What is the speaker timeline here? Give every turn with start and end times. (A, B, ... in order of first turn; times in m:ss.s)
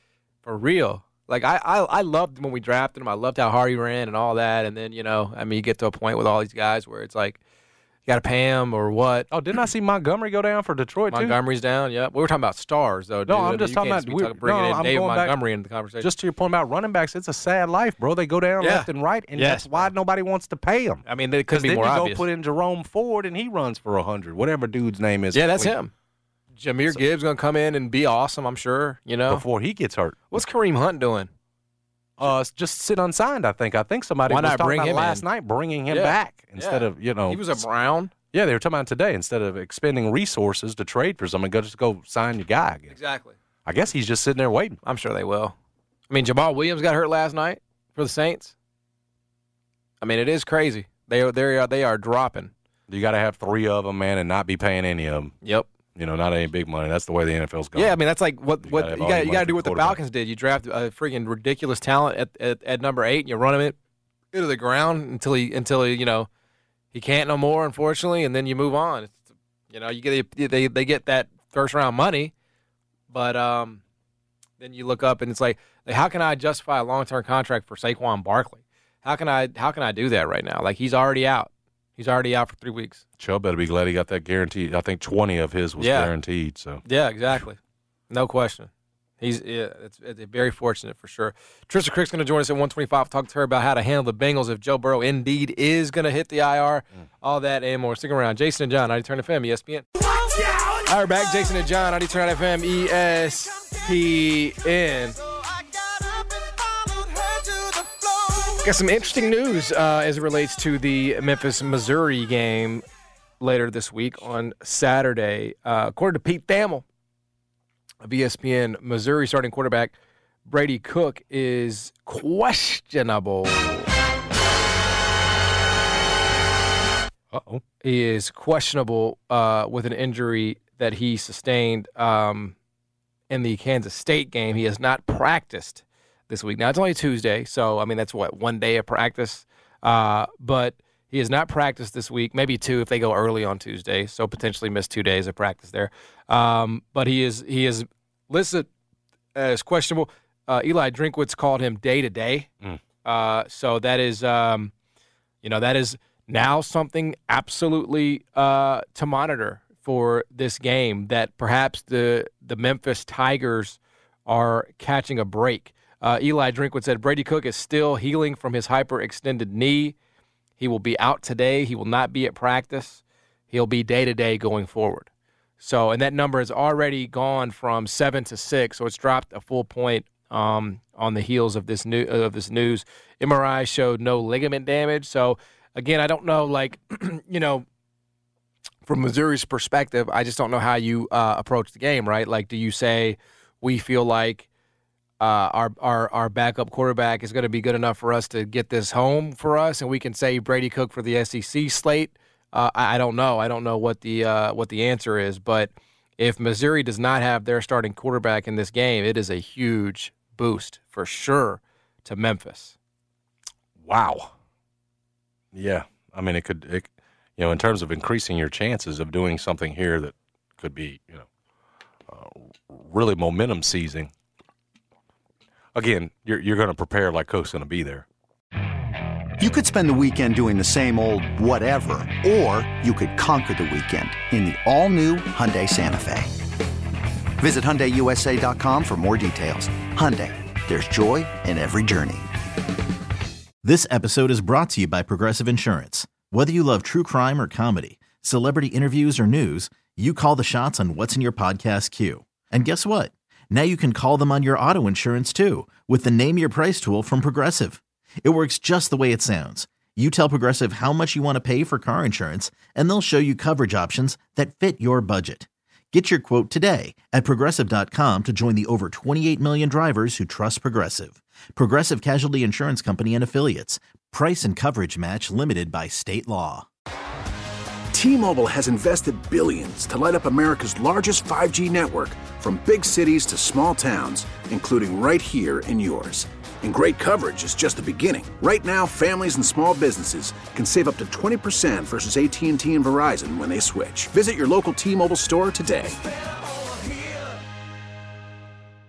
0:00.4-0:07.4 A
0:08.0-0:09.3 A
0:09.3-0:11.4 B
0:11.1-0:16.1 A
0:13.3-0:15.4 B
0:16.0-0:25.8 B
0:18.6-0:19.9 A
0:21.0-0:22.2 A
0:25.3-0:25.9 A
0:26.5-0:29.4 A
0:29.3-0:30.3 B
0:30.3-0:31.3 A
0:32.2-0:37.6 B
0:34.2-0:35.2 A
0:35.9-0:38.1 A
0:38.3-0:42.9 B
0:42.9-0:43.4 A
0:43.6-0:44.8 B
0:44.8-0:45.5 A
0:46.1-0:48.5 A
0:50.0-0:52.5 A
0:52.9-0:55.3 B
0:55.4-0:55.7 A
0:55.9-0:58.0 B
0:57.7-1:03.8 A
0:58.6-1:00.0 B
1:04.3-1:06.3 A
1:06.9-1:09.2 A
1:09.7-1:12.3 A
1:13.1-1:13.8 A
1:14.6-1:23.0 A
1:23.2-1:26.8 B
1:25.8-1:26.1 A
1:26.8-1:45.2 A
1:47.1-1:52.8 A
1:53.4-1:56.8 A
1:58.0-1:59.9 A
2:00.4-2:03.9 A
2:07.3-2:07.6 B
2:07.8-2:12.5 A
2:13.3-2:28.7 A
2:29.3-2:32.5 A
2:33.0-2:34.7 A
2:35.4-2:49.9 A
2:50.6-3:07.6 A
3:08.8-3:14.5 A
3:15.2-3:32.7 A
3:33.8-3:34.3 B
3:35.5-3:41.2 B
3:42.1-3:44.1 B
3:45.7-3:48.0 B
3:49.4-3:56.3 C
3:57.4-4:02.3 C
4:03.6-4:36.7 D
4:38.0-4:55.9 E